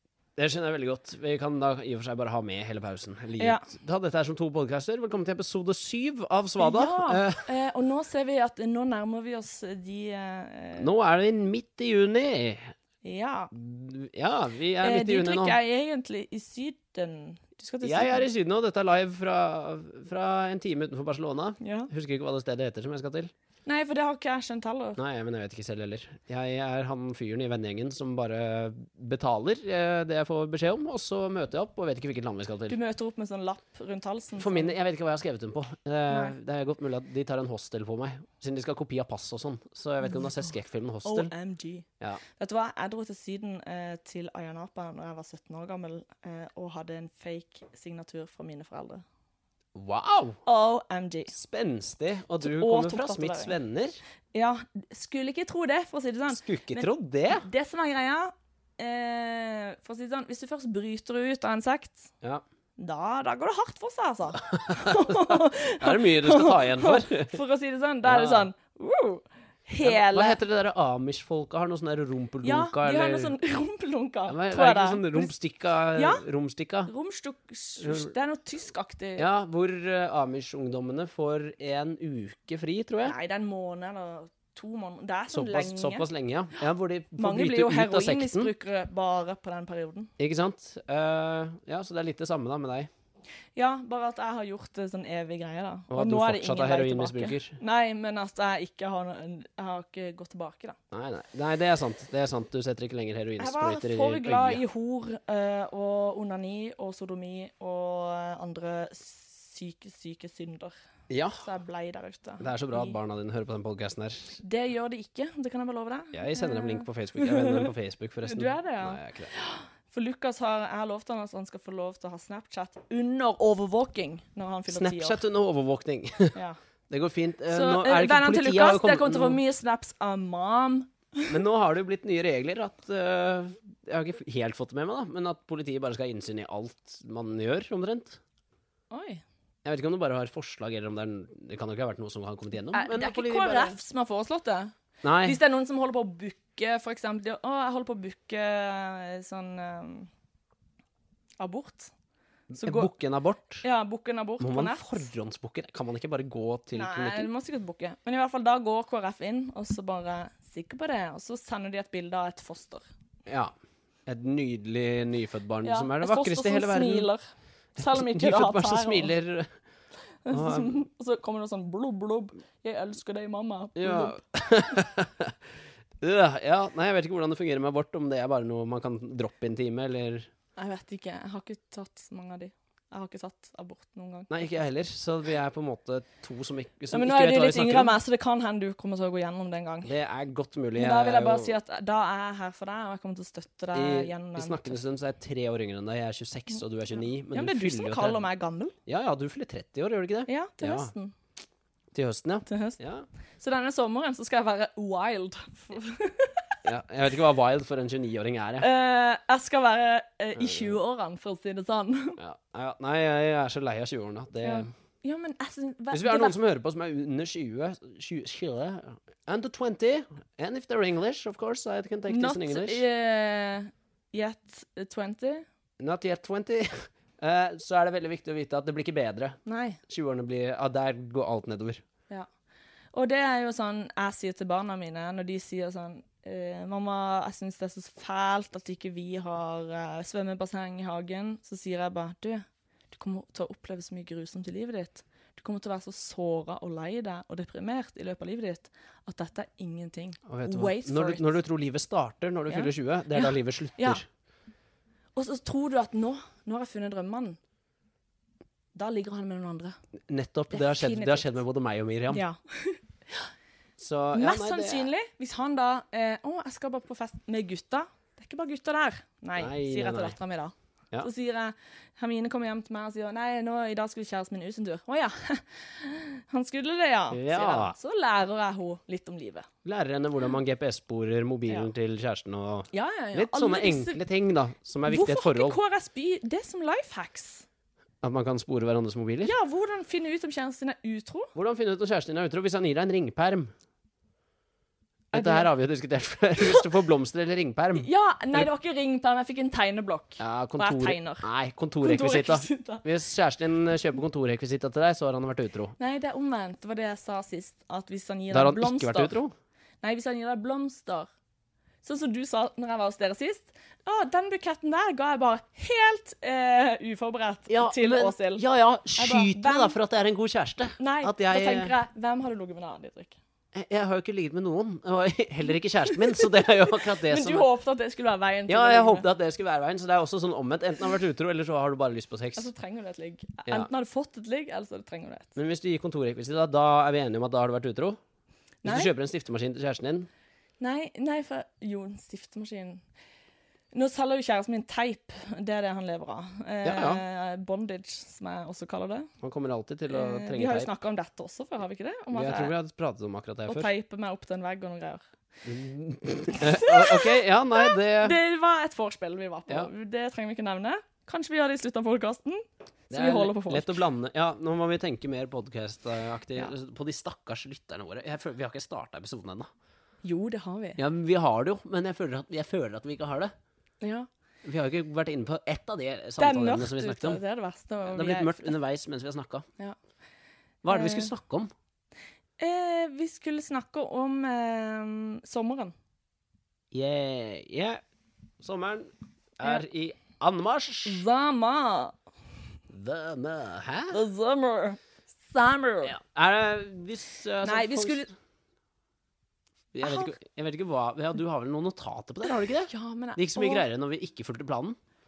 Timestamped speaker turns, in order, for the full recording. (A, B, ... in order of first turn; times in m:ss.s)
0:00.4-0:07.5 A
0:03.4-0:03.7 B
0:06.6-0:10.9 B
0:10.8-0:12.8 A
0:13.0-0:13.5 B
0:13.5-0:15.6 A
0:14.8-0:18.3 B
0:17.8-0:23.3 A
0:21.6-0:21.9 B
0:23.6-0:25.0 B
0:25.0-0:32.8 A
0:32.7-0:34.8 B
0:34.4-0:41.3 A
0:41.0-0:49.0 B
0:49.8-0:50.4 A
0:50.5-0:51.3 B
0:51.3-0:54.0 A
0:52.4-0:53.6 B
0:54.3-1:02.1 B
0:56.3-0:57.5 A
1:02.8-1:10.4 B
1:04.5-1:07.4 A
1:08.0-1:08.5 A
1:09.8-1:13.3 A
1:12.4-1:15.3 B
1:14.3-1:16.9 A
1:16.0-1:16.2 B
1:16.9-1:19.3 B
1:17.8-1:18.1 A
1:19.2-1:23.2 A
1:23.0-1:26.1 B
1:25.3-1:28.5 A
1:27.2-1:30.1 B
1:30.2-1:32.9 A
1:33.6-1:40.8 B
1:35.9-1:37.6 A
1:40.9-1:44.6 A
1:43.4-1:50.8 B
1:51.1-1:51.4 A
1:51.4-1:53.0 B
1:52.4-1:54.4 A
1:54.4-1:57.7 B
1:56.1-1:59.3 A
1:58.3-2:05.2 B
2:04.7-2:06.4 A
2:06.9-2:09.4 A
2:07.5-2:11.4 B
2:11.3-2:18.2 A
2:18.9-2:19.2 B
2:19.6-2:23.8 A
2:22.7-2:30.1 B
2:25.0-2:25.4 A
2:31.4-2:31.9 B
2:32.5-2:33.6 A
2:32.6-2:32.9 B
2:33.6-2:35.1 B
2:34.4-2:37.3 A
2:36.7-2:42.8 B
2:43.3-2:43.5 A
2:44.1-2:47.1 A
2:45.6-2:47.2 B
2:47.8-2:49.1 B
2:47.8-2:49.5 A
2:50.2-2:54.2 B
2:50.3-2:50.8 A
2:53.8-2:55.4 A
2:56.0-3:00.3 A
3:00.6-3:04.5 B
3:04.3-3:08.0 A
3:06.9-3:09.9 B
3:09.8-3:11.5 A
3:10.8-3:14.8 B
3:13.7-3:18.2 A
3:17.3-3:18.8 B
3:18.9-3:20.9 A
3:20.3-3:21.1 B
3:21.9-3:23.1 A
3:22.5-3:22.8 B
3:23.4-3:26.6 B
3:26.6-3:28.7 A
3:28.6-3:32.2 B
3:30.4-3:30.8 A
3:32.2-3:34.7 A
3:34.4-3:36.4 B
3:35.9-3:42.8 A
3:42.1-3:45.4 B
3:45.8-3:51.8 A
3:49.5-3:49.8 B
3:52.9-4:11.3 B
4:10.3-4:14.0 A
4:12.5-4:14.0 B
4:15.2-4:17.4 B
4:18.8-4:19.8 B
4:20.1-4:22.2 A
4:20.5-4:21.4 B
4:22.1-4:23.3 B
4:23.8-4:24.9 A
4:24.1-4:39.5 B
4:29.4-4:30.2 A
4:37.1-4:37.8 A
4:39.6-4:45.6 A
4:42.7-4:44.0 B
4:44.9-4:47.5 B
4:48.0-4:49.3 A
4:49.2-4:51.3 B
4:51.4-4:53.5 A
4:55.1-4:55.5 B
4:55.1-4:58.5 A
4:56.4-4:56.7 B
4:57.8-5:01.3 B
5:00.2-5:05.8 A
5:01.8-5:02.8 B
5:05.8-5:09.2 B
5:08.3-5:09.3 A
5:09.8-5:11.1 B
5:11.8-5:18.4 B
5:17.5-5:21.8 A
5:19.0-5:19.8 B
5:20.8-5:23.2 B
5:23.5-5:27.5 A
5:25.9-5:29.1 B
5:28.5-5:32.5 A
5:32.4-5:35.4 B
5:35.4-5:38.0 A
5:38.6-5:38.9 B
5:38.6-5:40.1 A
5:40.6-5:42.8 B
5:43.7-5:49.1 B
5:46.6-5:47.0 A
5:49.2-5:50.7 A
5:49.9-5:52.5 B
5:52.1-5:53.7 A
5:53.5-5:55.0 B
5:55.4-5:58.2 A
5:56.4-6:03.8 B
6:02.9-6:09.5 A
6:10.0-6:10.8 B
6:10.8-6:13.3 A
6:13.8-6:14.1 B
6:14.4-6:17.2 A
6:16.2-6:18.6 B
6:17.9-6:19.5 A
6:20.6-6:21.5 A
6:20.7-6:21.1 B
6:22.4-6:25.7 B
6:26.7-6:27.8 A
6:28.4-6:31.0 A
6:30.9-6:32.0 B
6:32.7-6:34.0 A
6:33.9-6:36.0 B
6:35.8-6:38.1 A
6:37.4-6:38.1 B
6:39.7-6:44.8 A
6:39.8-6:40.1 B
6:42.7-6:43.7 B